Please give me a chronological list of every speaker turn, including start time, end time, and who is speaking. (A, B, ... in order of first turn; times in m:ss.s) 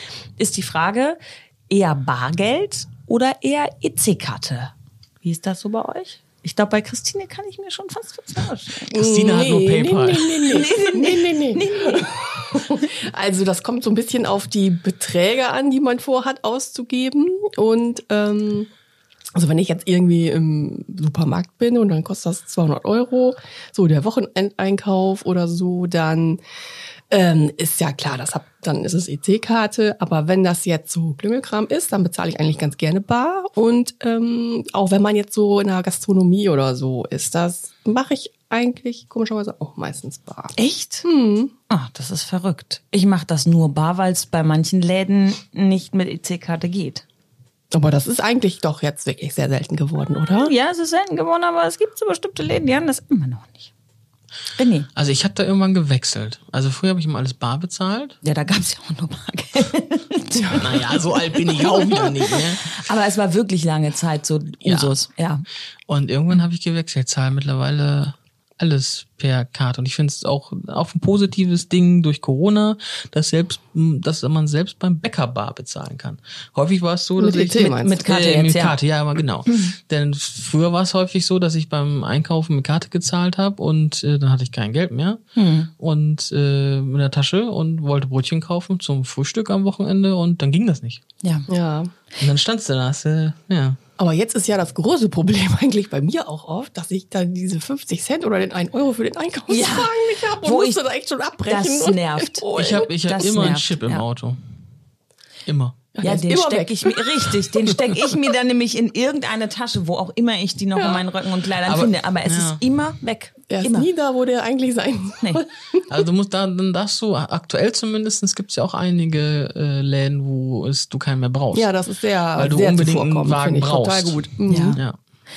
0:00.4-0:01.2 A
0:01.7-0:09.0 A
0:08.9-0:18.7 B
0:08.9-0:10.7 C
0:10.5-0:12.5 A
0:19.3-0:26.4 B
0:27.1-0:41.5 B
0:40.6-0:41.0 A
0:41.7-0:47.0 A
0:47.7-0:50.5 B
0:50.4-0:53.7 A
0:54.5-0:54.9 A
0:54.9-0:58.2 C
0:58.2-1:05.4 A
1:00.4-1:00.6 B
1:00.6-1:02.7 C
1:04.6-1:05.0 C
1:05.9-1:25.2 C
1:17.2-1:18.0 B
1:17.5-1:18.8 A
1:25.3-1:25.7 A
1:25.8-1:31.0 C
1:31.2-1:31.5 A
1:31.5-1:31.9 B
1:32.2-1:33.8 C
1:34.0-1:42.9 B
1:39.5-1:40.9 A
1:41.4-1:44.0 A
1:42.5-1:44.4 C
1:45.4-1:45.8 C
1:45.9-1:47.2 B
1:46.0-1:53.9 A
1:50.8-1:51.0 B
1:51.6-1:52.6 C
1:53.5-1:56.0 B
1:55.9-2:01.7 C
2:01.5-2:04.8 B
2:02.4-2:05.0 C
2:04.5-2:04.8 A